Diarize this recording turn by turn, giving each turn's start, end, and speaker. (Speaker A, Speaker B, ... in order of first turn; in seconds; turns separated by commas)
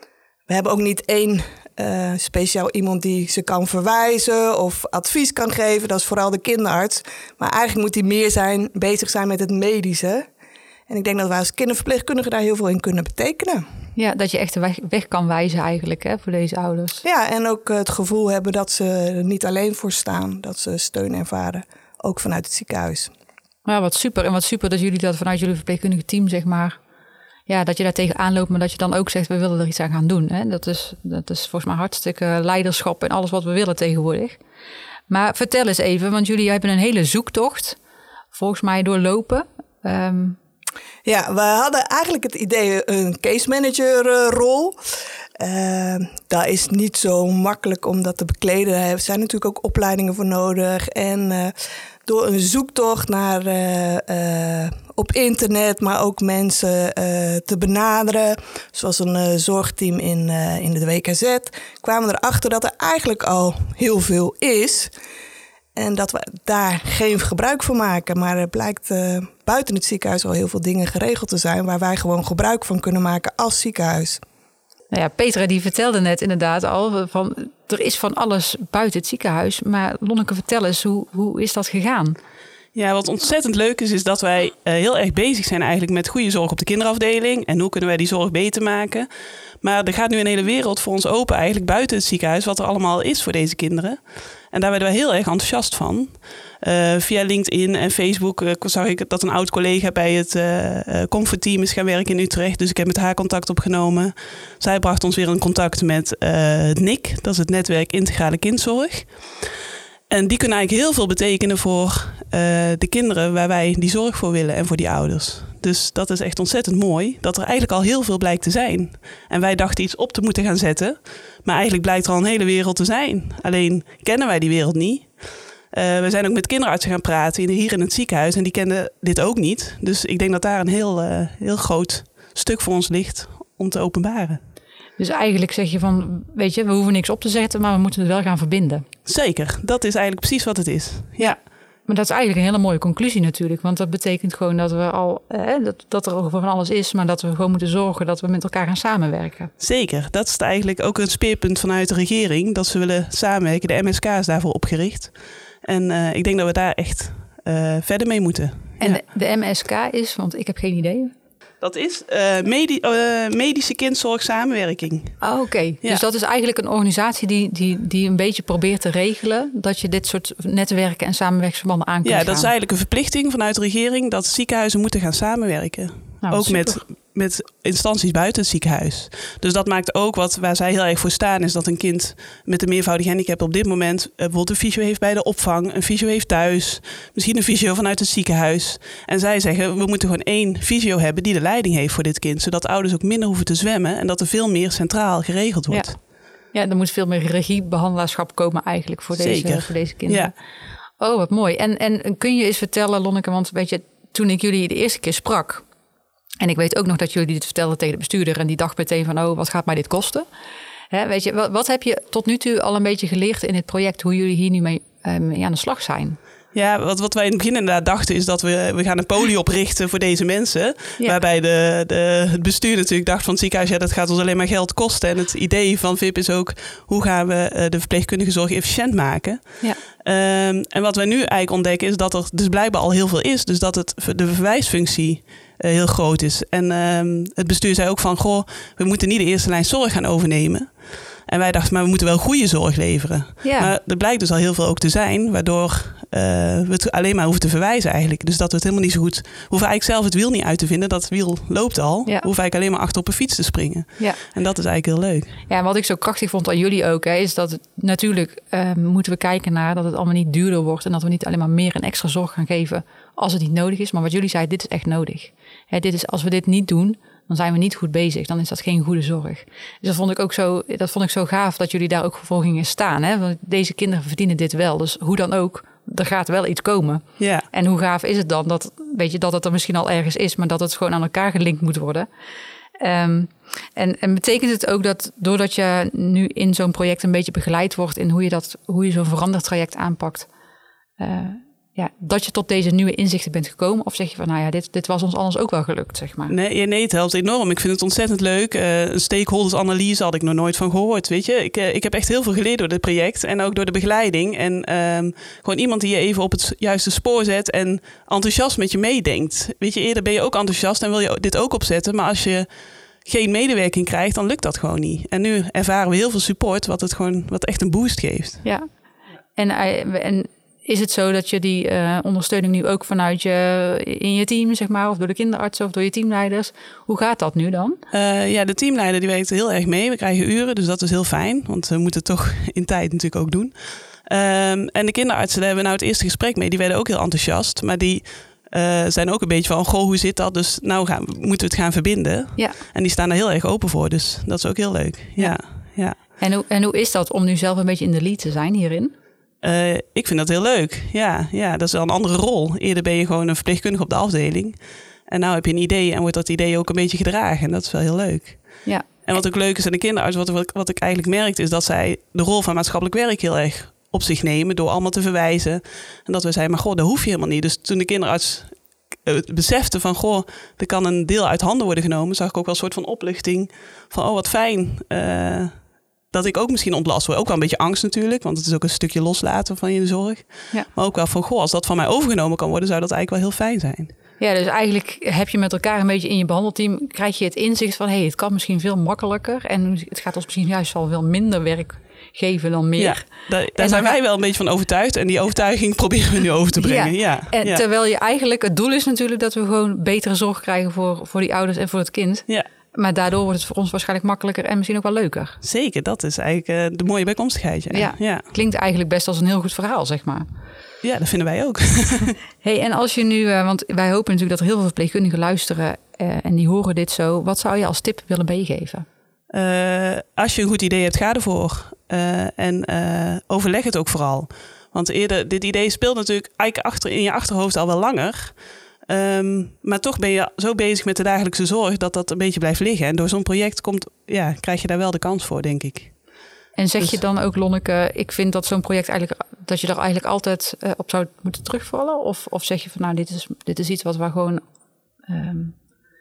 Speaker A: 0.5-10.2, Speaker A: 10.9-13.6, Speaker B: 13.9-17.0, Speaker A: 17.0-23.1, Speaker B: 23.6-26.8, Speaker B: 27.5-34.4, Speaker B: 35.1-37.8, Speaker B: 38.3-40.4, Speaker A: 41.0-44.8, Speaker A: 45.4-51.5, Speaker A: 52.0-64.9, Speaker A: 65.8-74.2, Speaker B: 74.9-82.2, Speaker C: 82.7-89.1, Speaker C: 89.6-109.2, Speaker C: 110.1-125.1, Speaker C: 125.7-134.4, Speaker B: 135.0-138.8, Speaker C: 139.0-141.3, Speaker B: 141.2-149.5, Speaker C: 149.6-159.0, Speaker B: 158.8-161.1, Speaker C: 161.6-165.3, Speaker B: 165.2-172.5, Speaker C: 172.0-196.0, Speaker B: 176.2-176.8, Speaker B: 195.7-196.0, Speaker B: 196.5-200.3, Speaker C: 199.1-200.3, Speaker B: 201.0-205.6, Speaker B: 206.4-210.3, Speaker B: 210.9-216.2, Speaker C: 216.5-255.4, Speaker B: 243.4-243.7, Speaker B: 254.0-254.2, Speaker B: 255.5-282.1, Speaker C: 277.2-277.5, Speaker B: 282.8-290.3, Speaker B: 291.0-296.4, Speaker C: 296.3-312.5, Speaker C: 313.0-318.4, Speaker B: 318.4-318.7, Speaker B: 319.3-327.8, Speaker C: 327.9-346.0, Speaker B: 345.2-348.9, Speaker C: 349.4-383.9, Speaker B: 358.6-358.9, Speaker B: 384.2-394.0, Speaker C: 392.8-397.6, Speaker B: 396.6-405.4, Speaker C: 405.4-408.2, Speaker B: 407.7-410.3, Speaker C: 410.8-412.1, Speaker B: 412.4-418.9, Speaker C: 419.3-436.0, Speaker B: 436.5-444.4, Speaker B: 445.1-445.6